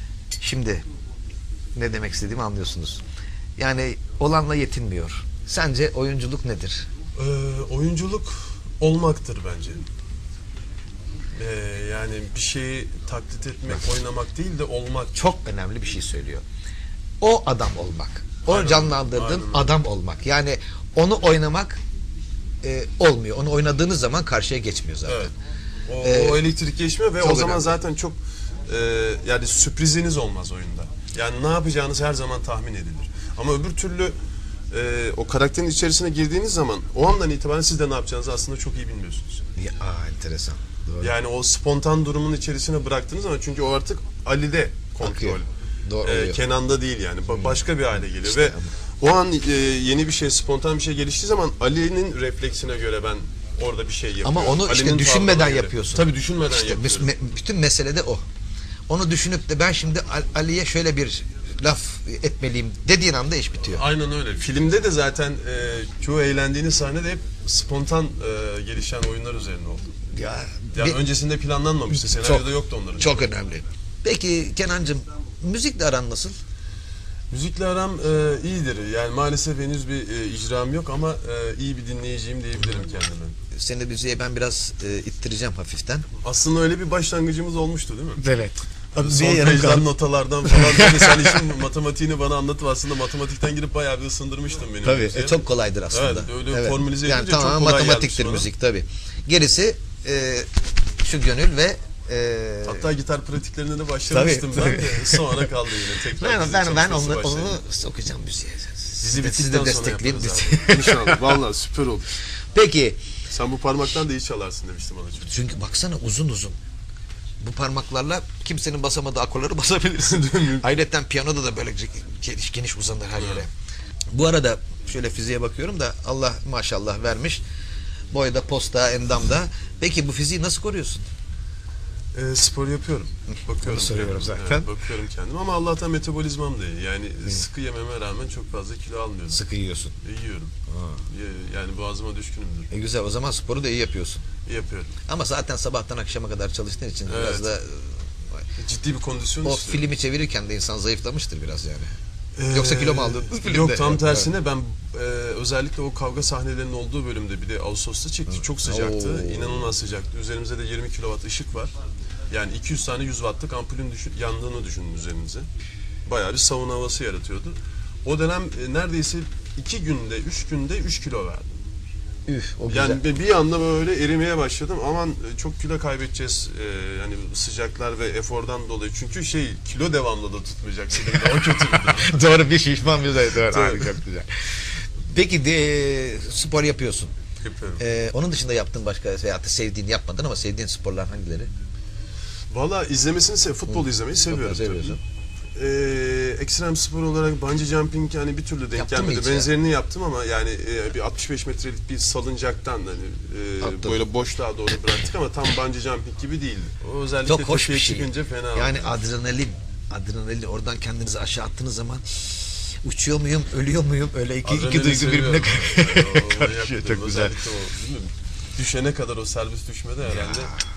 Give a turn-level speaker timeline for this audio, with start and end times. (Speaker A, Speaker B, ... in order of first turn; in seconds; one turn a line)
Speaker A: 0.4-0.8
Speaker A: 1.8-3.0
Speaker A: 3.6-6.9
Speaker B: 7.2-9.8
Speaker B: 11.4-15.2
Speaker A: 15.2-16.4
Speaker A: 17.2-21.8
Speaker B: 18.5-19.8
Speaker A: 22.6-25.3
Speaker B: 25.1-25.3
Speaker B: 25.9-34.1
Speaker A: 26.0-26.4
Speaker A: 27.2-27.7
Speaker B: 34.7-39.4
Speaker A: 39.6-41.1
Speaker B: 41.0-45.5
Speaker A: 45.0-46.4
Speaker B: 46.0-57.1
Speaker A: 48.2-48.7
Speaker A: 54.2-58.2
Speaker A: 58.9-63.8
Speaker B: 63.6-69.9
Speaker A: 70.1-71.0
Speaker B: 70.7-73.3
Speaker A: 72.2-72.5
Speaker A: 73.0-76.4
Speaker B: 77.3-83.4
Speaker A: 83.5-86.1
Speaker B: 86.2-88.2
Speaker A: 88.2-89.9
Speaker B: 89.0-98.5
Speaker A: 90.5-91.3
Speaker A: 94.8-100.5
Speaker A: 101.0-102.9
Speaker B: 102.6-107.6
Speaker A: 104.1-105.4
Speaker A: 106.2-111.3
Speaker B: 109.0-112.1
Speaker A: 112.5-113.0
Speaker B: 113.3-115.3
Speaker A: 115.2-116.6
Speaker A: 117.4-123.5
Speaker B: 120.0-120.7
Speaker B: 123.2-123.4
Speaker A: 124.1-127.4
Speaker A: 128.1-131.1
Speaker B: 132.1-139.4
Speaker A: 133.6-134.7
Speaker A: 139.3-139.9
Speaker B: 140.0-140.5
Speaker A: 140.7-141.0
Speaker B: 141.1-142.7
Speaker A: 142.7-144.2
Speaker B: 144.5-144.9
Speaker A: 145.1-148.4
Speaker B: 147.1-147.5
Speaker B: 148.6-149.9
Speaker A: 149.4-151.9
Speaker B: 152.4-161.7
Speaker A: 152.5-154.3
Speaker A: 158.6-159.7
Speaker B: 162.3-165.5
Speaker B: 166.1-171.5
Speaker A: 172.3-173.0
Speaker B: 172.7-182.1
Speaker A: 181.7-187.1
Speaker B: 183.5-184.0
Speaker B: 187.4-187.8
Speaker A: 187.8-191.5
Speaker B: 192.5-195.0
Speaker A: 193.7-195.0
Speaker B: 195.6-209.0
Speaker A: 198.8-199.5
Speaker A: 203.6-204.0
Speaker A: 207.3-217.4
Speaker B: 214.4-220.5
Speaker A: 220.1-220.6